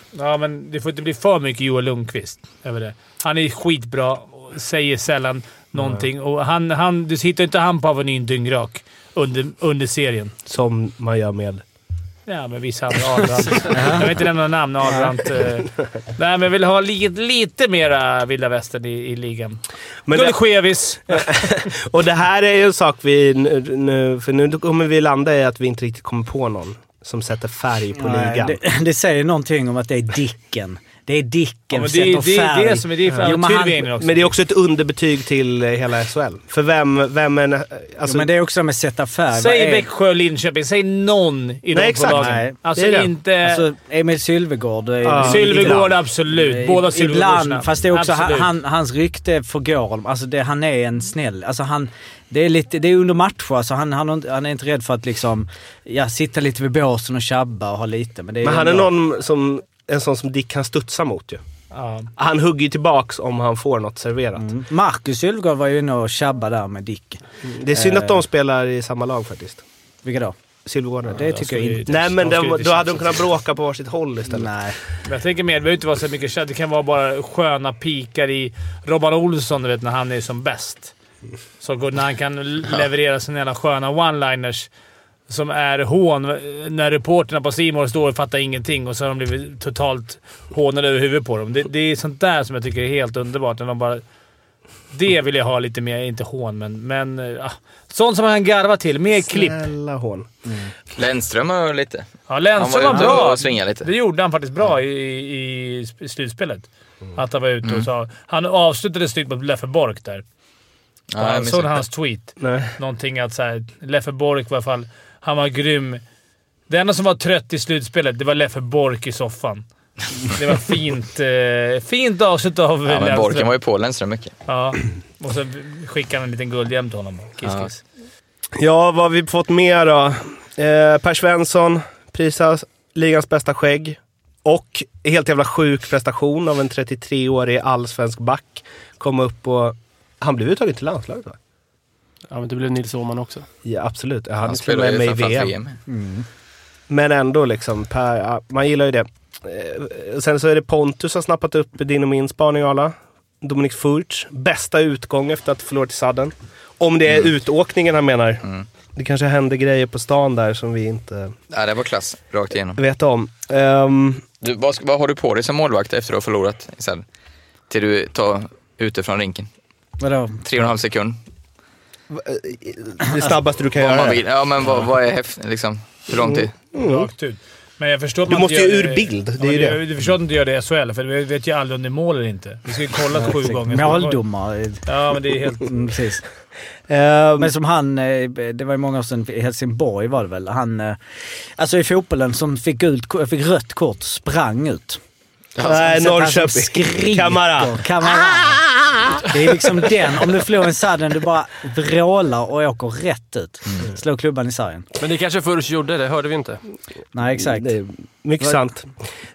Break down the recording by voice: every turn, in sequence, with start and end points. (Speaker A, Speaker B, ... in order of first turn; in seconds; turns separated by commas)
Speaker A: 0.1-10.3, Speaker B: 5.8-6.0, Speaker B: 10.5-11.6, Speaker A: 12.3-19.6, Speaker C: 13.7-14.1, Speaker B: 20.1-20.4, Speaker A: 20.1-21.5, Speaker B: 21.1-28.6, Speaker C: 27.9-33.9, Speaker A: 31.7-34.3, Speaker B: 34.0-38.3, Speaker C: 38.0-39.9, Speaker A: 39.3-43.6, Speaker B: 41.7-43.1, Speaker C: 42.1-42.5, Speaker C: 43.4-58.9, Speaker B: 45.0-45.9, Speaker A: 45.1-48.5, Speaker B: 58.4-61.4, Speaker A: 61.7-62.1, Speaker B: 62.2-64.5, Speaker C: 64.4-68.2, Speaker B: 67.5-69.6, Speaker C: 70.0-70.3, Speaker B: 70.7-71.3, Speaker C: 71.1-71.9, Speaker A: 71.2-73.2, Speaker B: 71.9-74.5, Speaker C: 74.3-74.8, Speaker A: 75.0-80.9, Speaker A: 81.6-84.7, Speaker A: 85.3-94.0, Speaker A: 94.9-99.6, Speaker B: 99.2-100.3, Speaker D: 101.0-103.9, Speaker A: 102.3-110.2, Speaker D: 111.1-111.8, Speaker A: 111.2-116.0, Speaker B: 112.4-112.7, Speaker A: 116.7-119.6, Speaker A: 120.2-123.5, Speaker D: 122.9-124.3, Speaker A: 124.5-127.8, Speaker B: 128.6-141.4, Speaker E: 142.3-143.4, Speaker B: 143.6-145.5, Speaker D: 144.4-145.8, Speaker C: 145.9-146.2, Speaker B: 146.9-158.4, Speaker B: 158.9-161.3, Speaker D: 161.5-162.8, Speaker B: 162.8-164.2, Speaker D: 164.4-167.0, Speaker D: 167.7-169.5, Speaker C: 170.0-170.4, Speaker D: 170.4-171.2, Speaker B: 172.1-174.2, Speaker D: 173.8-176.5, Speaker B: 176.2-177.1, Speaker A: 176.7-184.2, Speaker B: 178.3-179.8, Speaker C: 183.1-184.8, Speaker A: 184.8-185.7, Speaker C: 185.6-186.2, Speaker B: 186.9-187.5, Speaker C: 187.4-191.0, Speaker C: 191.6-195.0, Speaker B: 195.6-197.8, Speaker C: 195.6-204.8, Speaker E: 205.0-206.6, Speaker C: 207.1-207.7, Speaker B: 207.4-208.9